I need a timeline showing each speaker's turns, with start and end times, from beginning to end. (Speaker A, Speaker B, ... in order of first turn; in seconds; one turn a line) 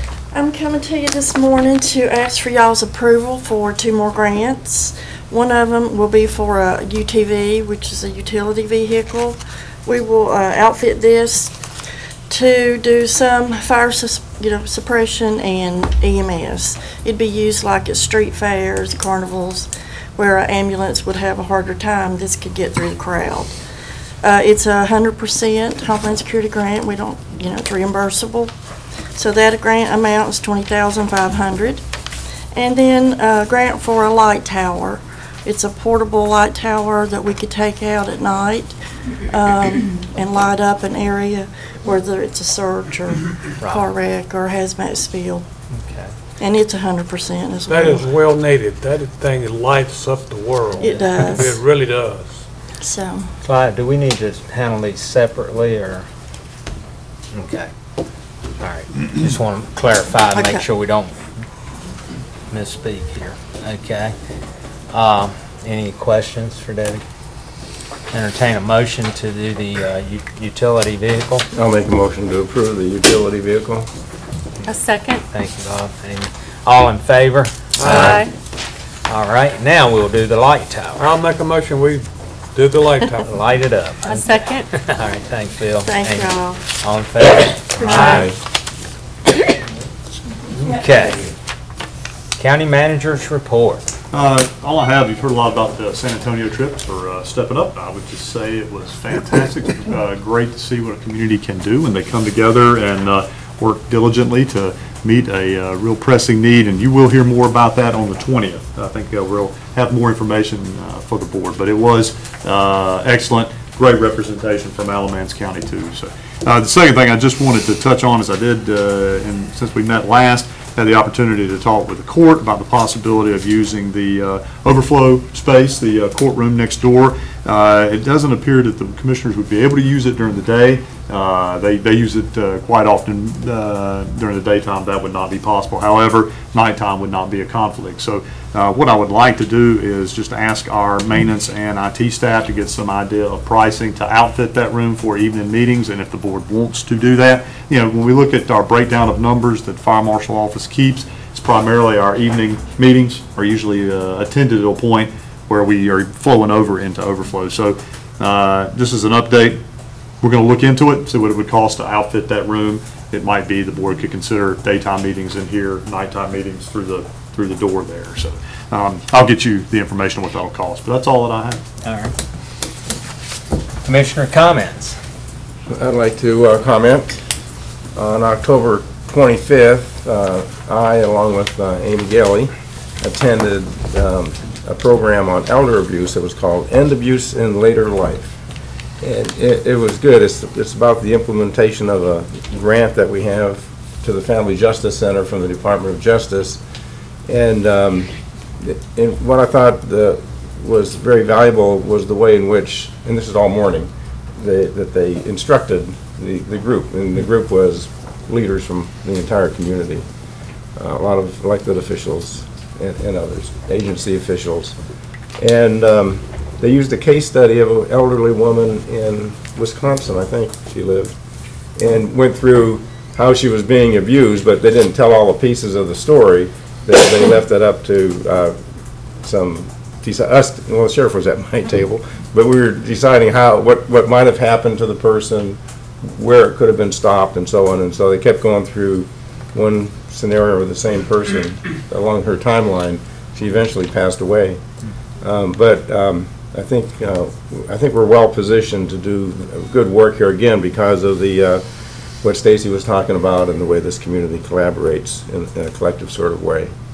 Speaker A: 0.3-11.6
Speaker A: 12.3-23.6
Speaker A: 24.2-28.5
Speaker A: 29.1-31.8
Speaker A: 32.5-45.5
Speaker B: 45.7-46.1
Speaker A: 46.4-48.1
Speaker C: 47.7-52.4
Speaker A: 50.8-51.6
Speaker A: 52.8-53.3
Speaker B: 53.4-56.1
Speaker B: 57.3-57.7
Speaker B: 58.6-61.2
Speaker A: 60.3-60.6
Speaker B: 62.5-64.2
Speaker B: 64.9-67.0
Speaker B: 68.1-71.5
Speaker D: 71.5-73.9
Speaker E: 74.7-75.2
Speaker B: 75.3-78.2
Speaker C: 77.8-78.2
Speaker E: 77.8-78.3
Speaker B: 79.1-81.0
Speaker C: 81.0-83.2
Speaker B: 83.3-88.3
Speaker E: 84.0-84.7
Speaker A: 85.8-86.6
Speaker E: 87.8-88.3
Speaker D: 88.0-88.3
Speaker B: 90.7-91.2
Speaker B: 92.4-93.8
Speaker F: 94.1-159.6
Speaker F: 160.2-171.6
Speaker B: 171.8-172.2
Speaker B: 173.8-175.0
Speaker D: 175.7-177.2
Speaker D: 177.9-188.3
Speaker D: 189.0-196.6
Speaker D: 197.3-210.1
Speaker D: 210.8-214.8
Speaker D: 215.4-221.2
Speaker D: 221.8-228.6
Speaker D: 229.2-244.6
Speaker D: 245.2-251.6
Speaker D: 252.2-256.7